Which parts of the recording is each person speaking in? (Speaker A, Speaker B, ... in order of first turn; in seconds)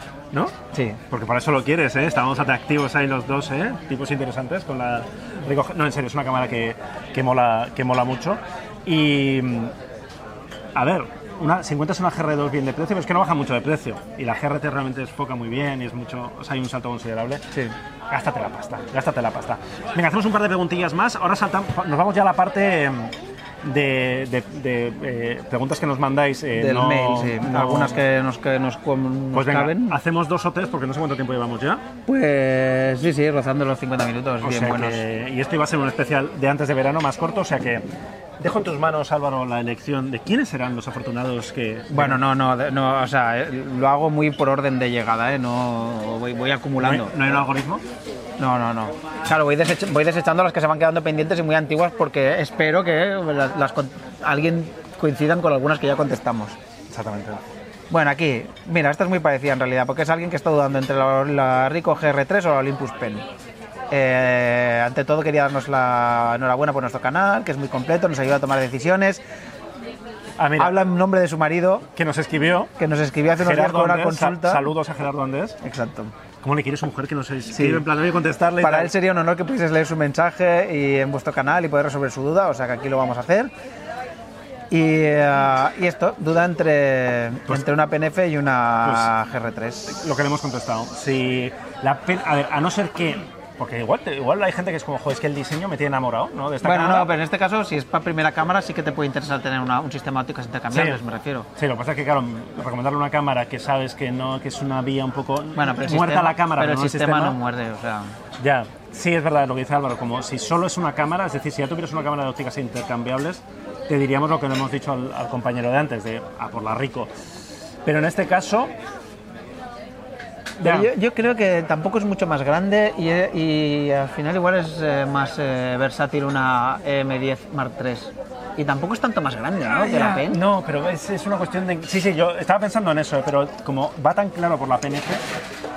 Speaker A: 0.7-1.0, 26.5-30.0, 32.1-35.0, 41.9-47.4, 48.4-56.6, 57.9-63.2, 63.9-69.2, 70.6-71.9, 72.8-74.7, 75.6-76.1, 77.5-77.8, 78.6-83.5, 84.7-90.0, 96.6-101.5, 105.5-108.2, 120.6-130.4
Speaker B: 1.1-9.7, 10.7-17.4, 18.1-28.0, 29.3-31.8, 34.4-37.8, 38.4-42.2, 46.8-47.8, 56.9-57.4, 70.4-70.8, 71.9-72.7, 73.3-75.6, 76.4-78.9, 88.8-89.1, 89.9-97.1, 100.7-101.0, 101.5-107.4, 108.4-117.1, 117.8-118.7, 120.6-120.9, 129.7-135.2